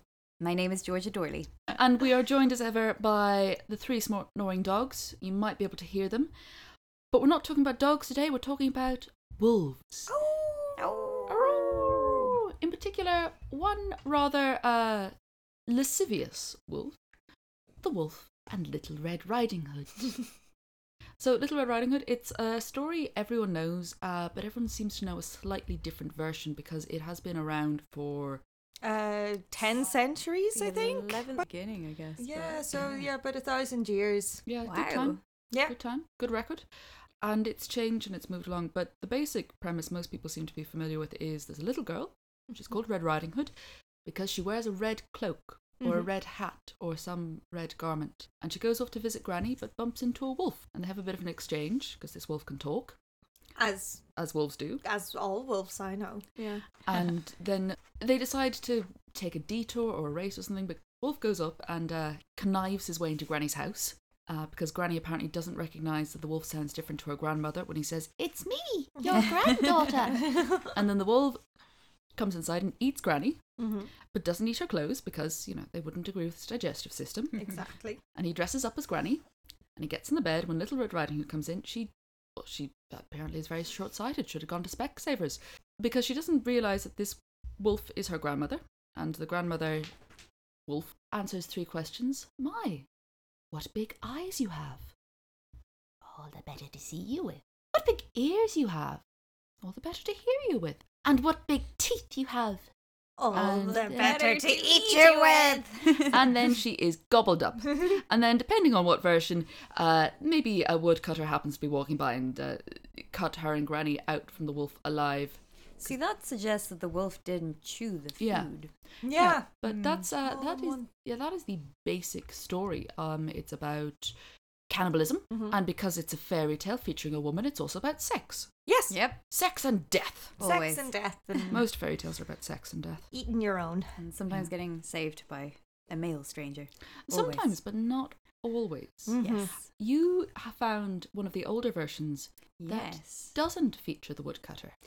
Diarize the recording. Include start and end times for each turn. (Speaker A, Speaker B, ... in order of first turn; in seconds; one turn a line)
Speaker A: 0.4-1.6
Speaker B: 1.7-10.1
Speaker C: 10.1-11.1
Speaker A: 10.8-12.0
Speaker B: 11.3-15.1
Speaker B: 15.7-16.9
Speaker B: 17.8-20.4
Speaker B: 21.2-28.4
Speaker C: 28.8-31.5
Speaker A: 30.5-33.1
Speaker C: 32.1-34.5
Speaker B: 34.4-53.0
Speaker A: 34.6-35.2
Speaker C: 45.8-46.1
Speaker C: 53.5-57.0
Speaker B: 54.1-54.8
Speaker B: 56.8-71.5
Speaker C: 69.0-70.7
Speaker A: 69.1-69.6
Speaker B: 72.1-90.1
Speaker C: 73.6-73.9
Speaker C: 77.3-78.0
Speaker B: 90.6-92.9
Speaker B: 93.5-94.9
Speaker B: 96.0-99.0
Speaker B: 99.6-102.7
Speaker C: 103.2-106.4
Speaker B: 103.3-104.2
Speaker A: 103.3-106.3
Speaker B: 106.1-116.0
Speaker A: 115.8-120.1
Speaker B: 118.2-128.7
Speaker C: 119.0-120.9
Speaker C: 125.3-125.6
Speaker C: 128.7-128.9
Speaker A: 128.9-129.2
Speaker B: 129.2-130.4
Speaker A: 130.4-131.6
Speaker C: 130.4-131.6
Speaker B: 131.5-133.1
Speaker C: 133.1-134.0
Speaker A: 133.9-137.5
Speaker B: 137.1-144.8
Speaker C: 139.1-139.5
Speaker A: 139.2-139.7
Speaker A: 142.6-143.3